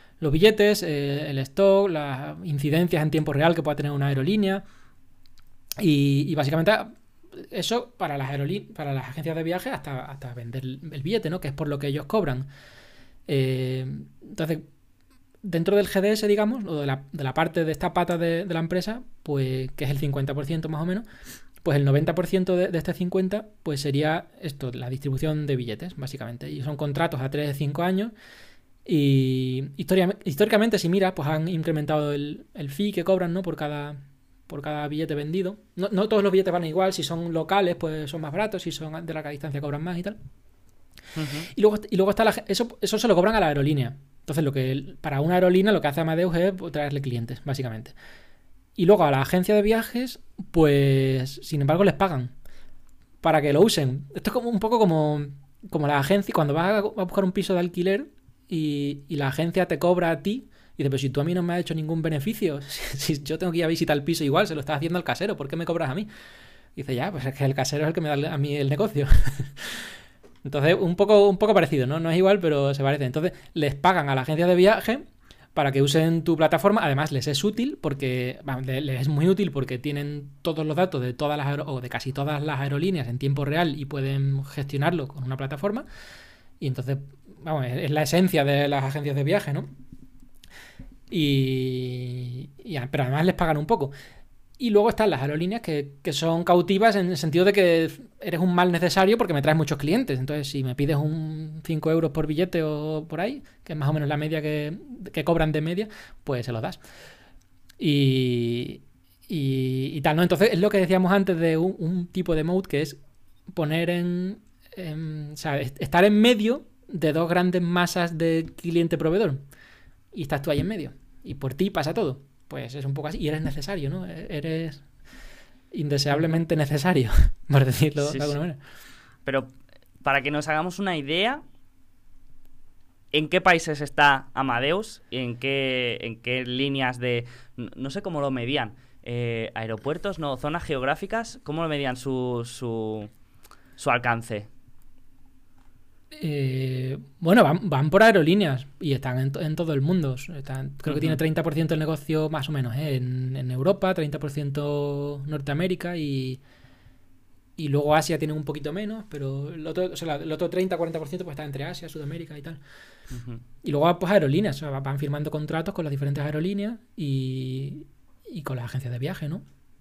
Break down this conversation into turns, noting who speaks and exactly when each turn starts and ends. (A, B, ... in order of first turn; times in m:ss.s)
0:00.2-0:04.6 A
0:05.8-0:12.5 A
0:13.3-0:14.6 A
0:15.4-0:21.0 A
0:21.6-0:28.1 A
0:28.8-0:40.2 A
0:41.2-0:41.5 B
0:41.4-0:47.9 A
0:48.8-0:52.3 A
0:53.2-1:06.1 A
1:06.8-1:09.9 A
1:10.4-1:25.8 A
1:26.6-1:29.7 A
1:31.1-1:33.9 A
1:34.6-1:46.8 A
1:47.8-1:53.0 A
1:53.5-1:59.4 A
2:00.1-2:04.9 A
2:05.7-2:08.6 A
2:08.0-2:08.4 B
2:09.2-2:09.5 B
2:10.0-2:11.4 B
2:13.1-2:23.1 B
2:23.8-2:24.5 B
2:26.2-2:36.4 A
2:30.9-2:31.2 B
2:37.6-2:42.6 A
2:43.1-2:43.4 B
2:43.6-2:49.4 A